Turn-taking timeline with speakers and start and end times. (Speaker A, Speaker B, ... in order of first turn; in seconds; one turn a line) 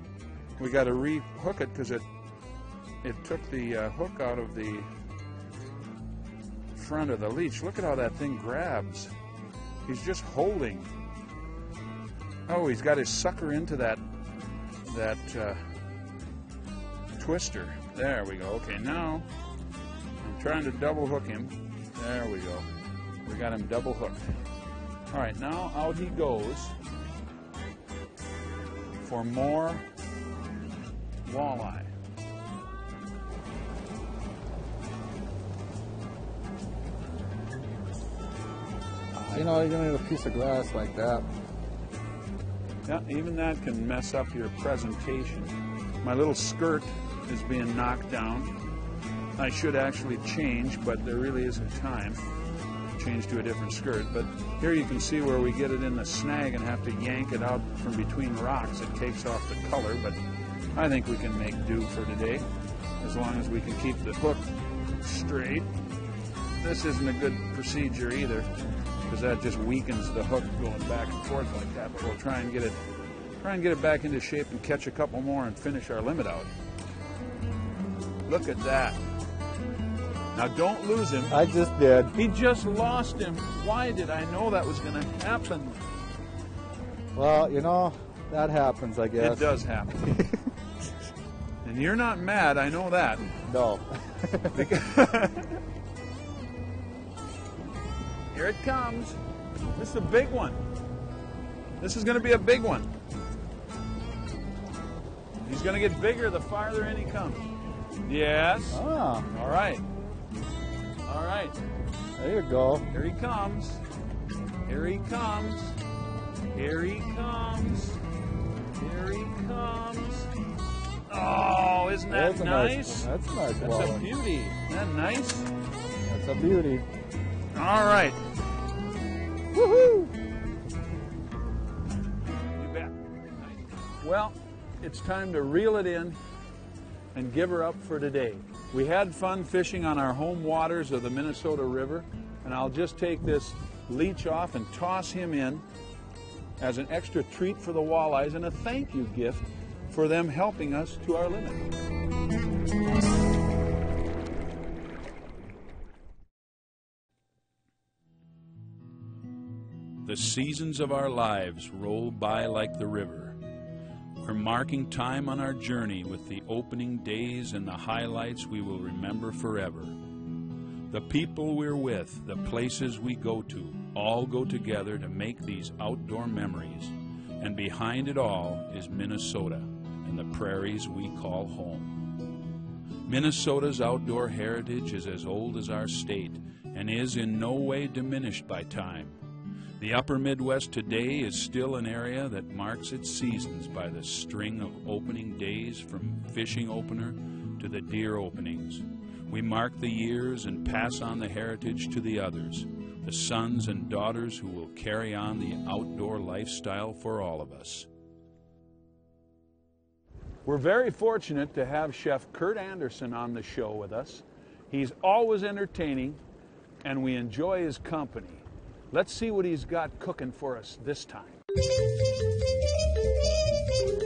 Speaker A: 0.6-2.0
Speaker A: 3.0-4.9
Speaker A: 6.7-9.1
Speaker A: 9.8-10.9
Speaker A: 12.5-14.0
Speaker A: 14.8-15.6
Speaker A: 17.2-19.3
Speaker A: 20.2-22.7
Speaker A: 23.2-24.4
Speaker A: 25.1-26.7
Speaker A: 29.0-29.8
Speaker A: 31.2-31.9
Speaker A: 39.1-39.6
Speaker B: 39.3-41.2
Speaker A: 42.9-48.5
Speaker A: 49.4-52.2
Speaker A: 53.0-60.2
Speaker A: 60.7-62.4
Speaker A: 63.0-65.7
Speaker A: 66.6-68.5
Speaker A: 69.1-72.8
Speaker A: 73.4-76.5
Speaker A: 78.2-79.0
Speaker A: 80.3-81.3
Speaker B: 81.3-82.1
Speaker A: 82.1-85.9
Speaker B: 87.1-89.5
Speaker A: 89.2-90.0
Speaker B: 90.0-90.4
Speaker A: 91.6-93.4
Speaker B: 93.5-94.7
Speaker A: 94.5-95.6
Speaker A: 98.3-99.2
Speaker A: 99.7-100.6
Speaker A: 101.8-102.9
Speaker A: 105.4-107.5
Speaker A: 108.0-109.8
Speaker B: 108.7-109.2
Speaker A: 111.0-111.6
Speaker B: 112.2-112.8
Speaker A: 112.9-113.8
Speaker A: 114.7-115.8
Speaker A: 116.5-118.0
Speaker A: 118.8-120.3
Speaker A: 121.1-125.5
Speaker B: 122.1-124.0
Speaker B: 126.0-126.9
Speaker A: 127.5-128.2
Speaker A: 132.5-136.2
Speaker A: 137.1-145.6
Speaker A: 146.6-151.7
Speaker A: 160.0-163.4
Speaker A: 164.2-169.9
Speaker A: 170.9-182.0
Speaker A: 183.0-189.2
Speaker A: 189.8-207.9
Speaker A: 210.4-216.2
Speaker A: 216.8-221.4